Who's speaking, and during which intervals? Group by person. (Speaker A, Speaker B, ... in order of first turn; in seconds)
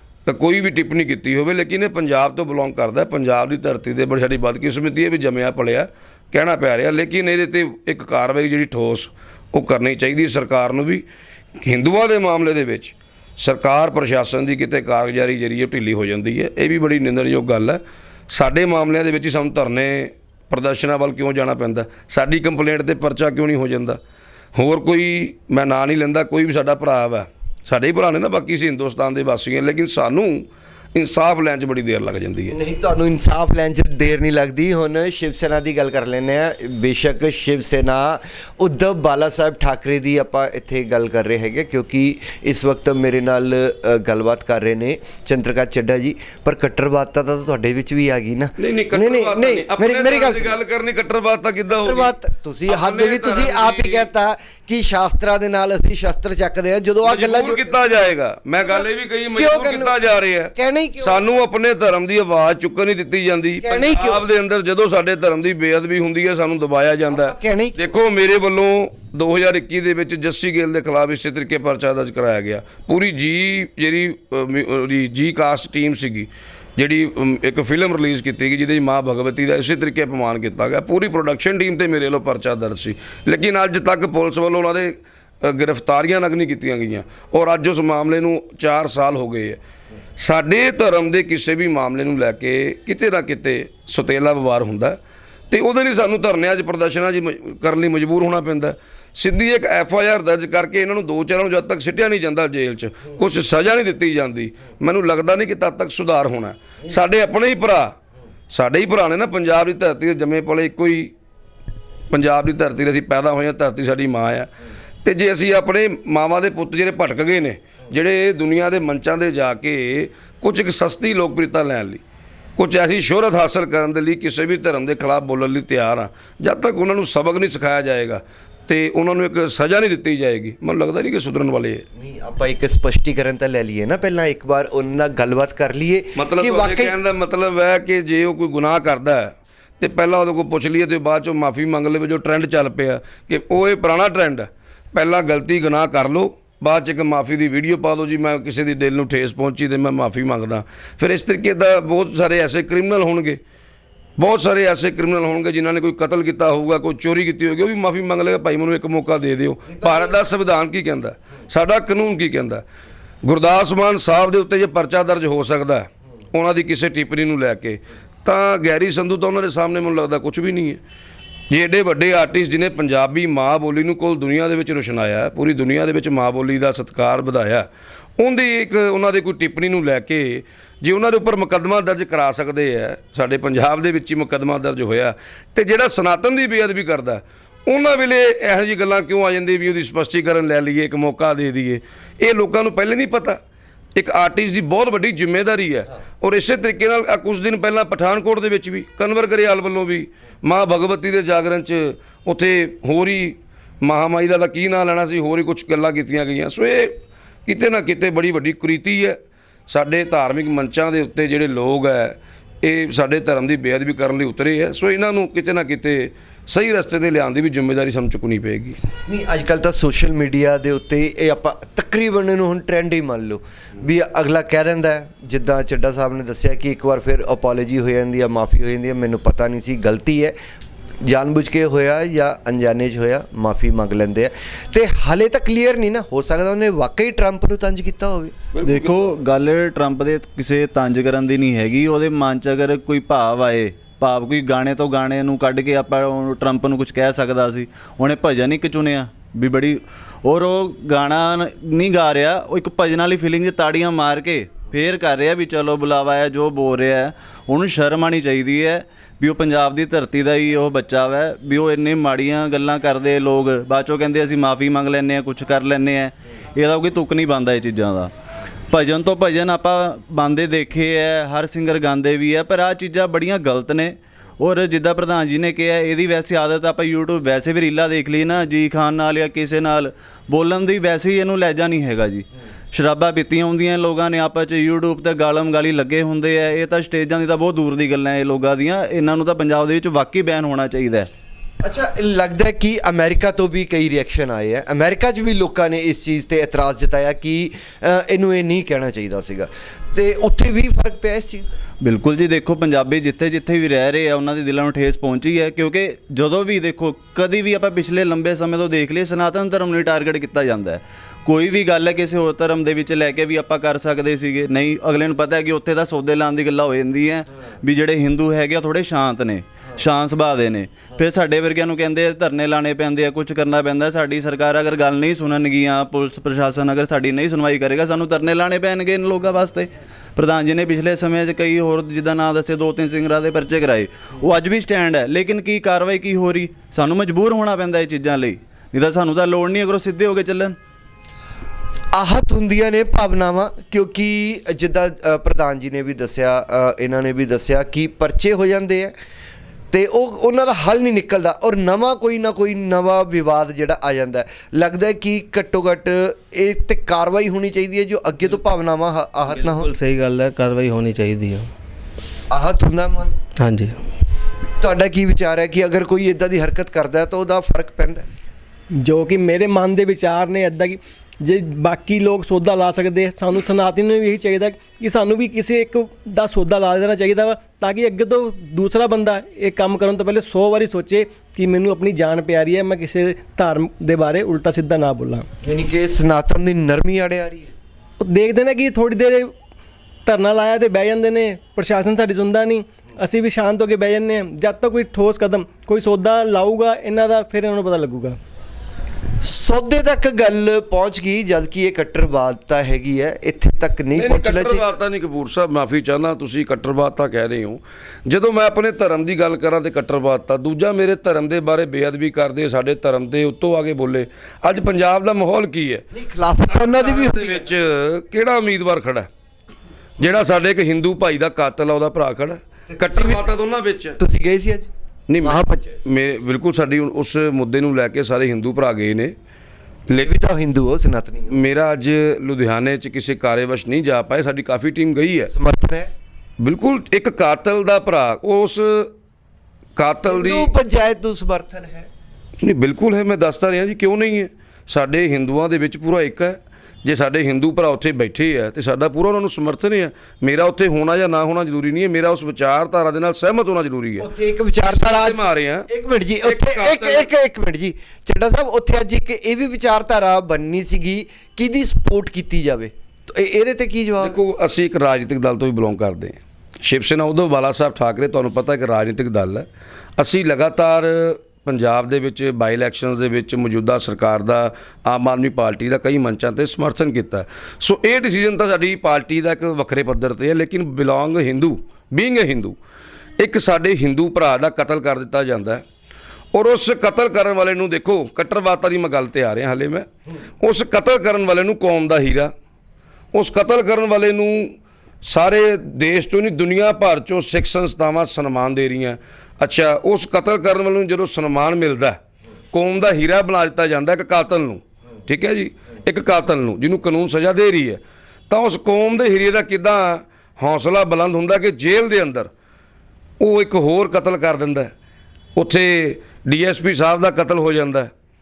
Speaker A: 0.2-11.0, 11.6-24.0, 24.5-32.5, 48.6-52.1, 52.6-54.1, 57.0-89.6, 90.2-95.0, 95.5-107.9, 108.5-111.1, 112.1-114.5, 115.0-122.0, 122.6-131.8, 136.2-153.4, 154.2-162.6, 163.2-170.8, 171.5-177.7, 178.2-193.4, 193.9-218.8, 238.5-239.0, 403.9-415.8, 416.5-419.1, 420.0-424.0, 425.1-429.1, 431.3-435.3, 436.4-438.9, 439.8-440.5, 442.4-454.1, 454.6-455.7, 456.2-457.1, 464.0-482.6, 483.2-485.6, 486.3-489.9, 490.4-492.3, 493.1-502.0, 502.5-512.3, 513.2-514.7, 515.4-517.9
Speaker B: 32.5-50.5, 51.7-57.7, 58.6-60.0, 60.5-61.2, 63.6-64.2, 67.1-67.8, 131.9-136.9, 219.1-230.3, 231.0-238.3, 291.6-301.5, 341.9-348.9, 349.7-359.7, 362.3-363.2, 364.6-368.1, 385.4-387.5, 399.2-404.7, 415.9-417.5, 422.7-423.2, 424.0-424.7, 425.2-425.7, 429.9-431.3, 435.3-435.9, 440.1-441.9, 454.0-464.2
Speaker C: 238.6-268.1, 268.7-291.1, 301.8-340.6
Speaker D: 359.3-361.5, 363.4-363.8
Speaker E: 368.8-385.3, 388.0-389.3, 390.0-398.2